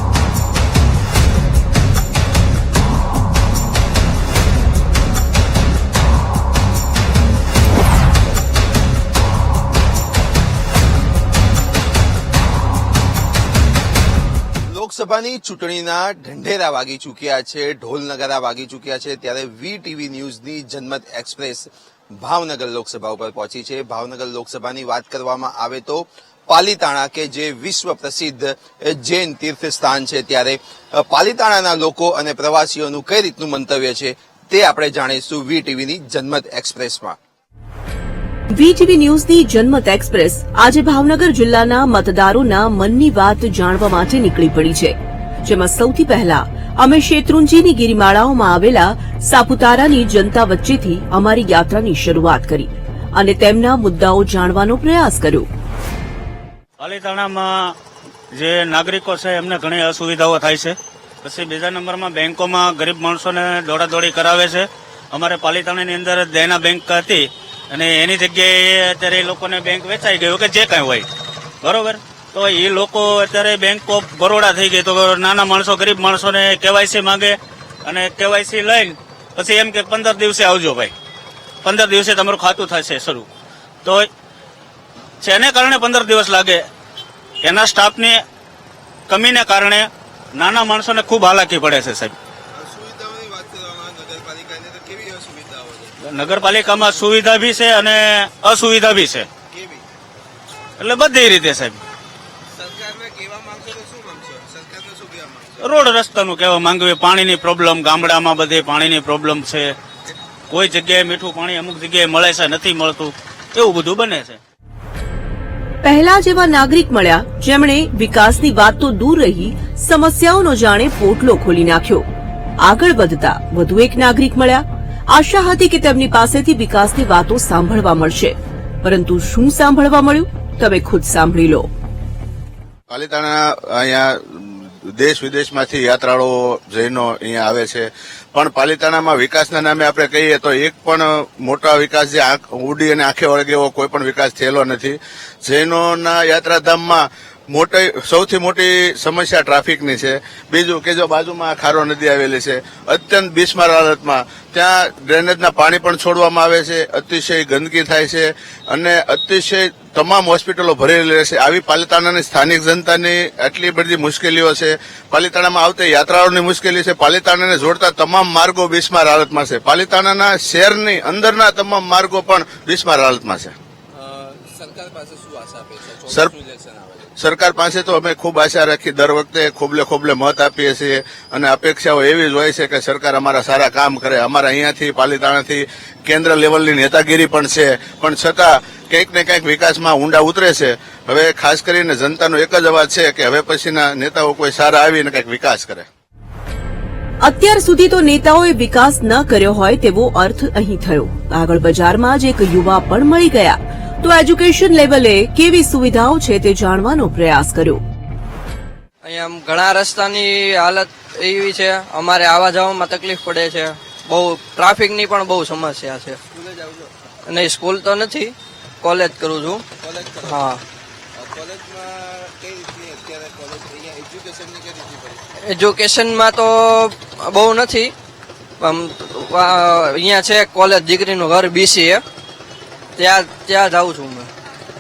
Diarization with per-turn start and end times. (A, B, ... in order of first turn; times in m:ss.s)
0:14.7-0:37.2 A
0:38.5-0:55.5 B
0:56.8-0:57.8 C
0:58.3-1:11.1 C
1:11.6-1:20.9 C
1:21.6-1:23.3 C
1:25.2-1:26.6 C
1:27.4-1:28.2 C
1:29.1-1:32.1 C
1:32.5-1:35.9 A
1:36.0-1:39.3 C
1:39.5-1:39.8 A
1:40.8-1:41.8 C
1:42.5-1:45.6 A
1:45.6-1:49.8 C
1:50.5-1:54.4 C
1:55.8-2:02.0 B
2:02.6-2:11.7 B
2:12.9-2:53.5 D
2:53.9-2:57.1 A
2:57.2-3:15.9 D
3:17.2-3:27.8 B
3:29.0-3:36.2 E
3:36.3-3:36.9 A
3:37.3-3:39.6 E
3:39.8-3:40.5 A
3:40.2-3:40.6 E
3:41.2-3:45.2 A
3:45.4-3:47.9 E
3:48.6-3:52.0 E
3:53.0-3:54.3 E